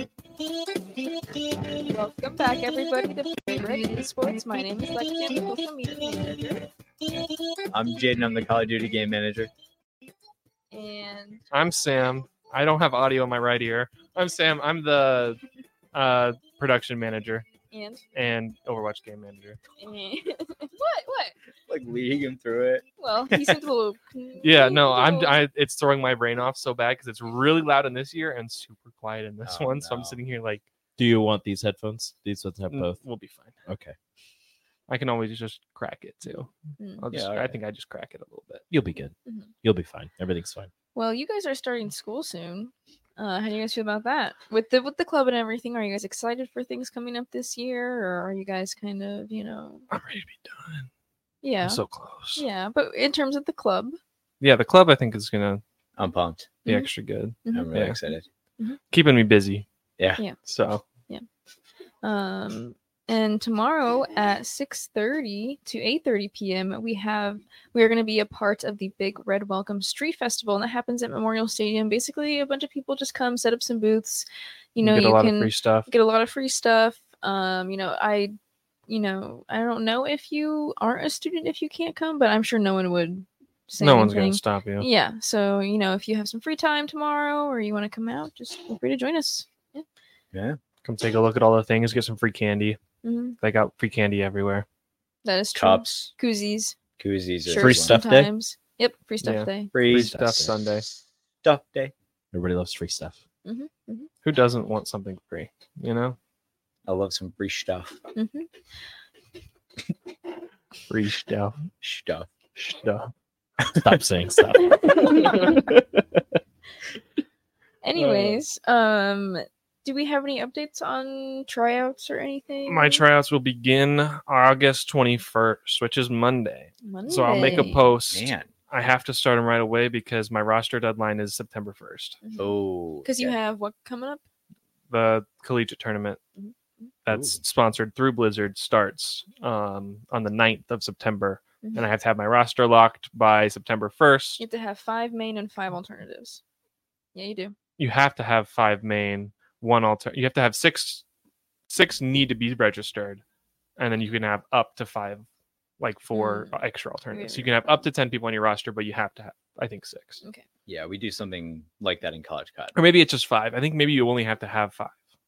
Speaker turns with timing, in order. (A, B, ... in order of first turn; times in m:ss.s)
0:01.8-0:06.6 A
0:07.7-0:09.5 B
0:10.7-0:11.4 A
0:11.5-0:15.4 C
0:15.9-0:17.4 C
0:17.7-0:18.0 A
0:18.1-0:19.6 C
0:19.8-0:21.4 A
0:21.7-0:23.6 B
0:23.0-0:25.4 A
0:24.4-0:30.6 C
0:29.4-0:30.2 B
0:31.0-0:33.0 D
0:32.7-0:33.5 C
0:33.6-0:33.9 D
0:34.9-0:38.6 C
0:37.1-0:37.6 B
0:38.7-0:40.7 D
0:39.2-0:39.5 A
0:40.9-0:49.8 A
0:49.9-0:50.9 C
0:51.4-0:51.8 A
0:51.6-0:52.4 C
0:52.4-0:54.0 A
0:54.4-0:55.6 C
0:56.0-0:56.6 B
0:56.6-0:56.9 A
0:56.6-0:58.0 C
0:57.4-0:58.8 A
0:57.5-0:58.2 B
0:58.9-0:59.6 C
1:00.4-1:00.8 C
1:02.0-1:18.3 A
1:14.8-1:15.9 C
1:18.9-1:29.8 A
1:23.8-1:24.9 C
1:30.3-1:30.6 B
1:30.8-1:32.8 C
1:33.0-1:33.4 A
1:33.4-1:34.6 C
1:35.2-1:36.8 A
1:35.5-1:36.1 B
1:37.0-1:38.0 B
1:37.4-1:39.8 A
1:37.6-1:38.3 D
1:39.2-1:40.8 C
1:39.7-1:40.1 B
1:39.8-1:40.5 D
1:41.4-1:41.9 B
1:42.3-1:43.2 D
1:43.4-1:44.1 A
1:44.2-1:46.2 C
1:46.8-1:48.0 B
1:48.1-1:48.5 A
1:50.9-1:51.5 C
1:51.8-1:52.3 B
1:52.6-1:53.1 C
1:53.7-1:55.7 D
1:54.6-1:55.6 A
1:57.8-2:03.0 A
1:58.0-1:58.4 C
2:02.7-2:12.2 C
2:06.8-2:07.9 A
2:08.0-2:08.5 B
2:12.2-2:14.2 A
2:12.4-2:13.4 B
2:14.9-2:16.2 C
2:16.4-2:16.9 A
2:17.0-2:24.4 C
2:17.1-2:17.4 B
2:24.4-2:26.4 A
2:27.1-2:27.5 A
2:27.8-2:31.0 C
2:31.7-2:33.2 C
2:33.8-2:35.2 C
2:35.8-2:40.2 C
2:36.1-2:36.6 A
2:37.1-2:37.8 A
2:40.7-2:42.7 B
2:42.7-2:45.0 C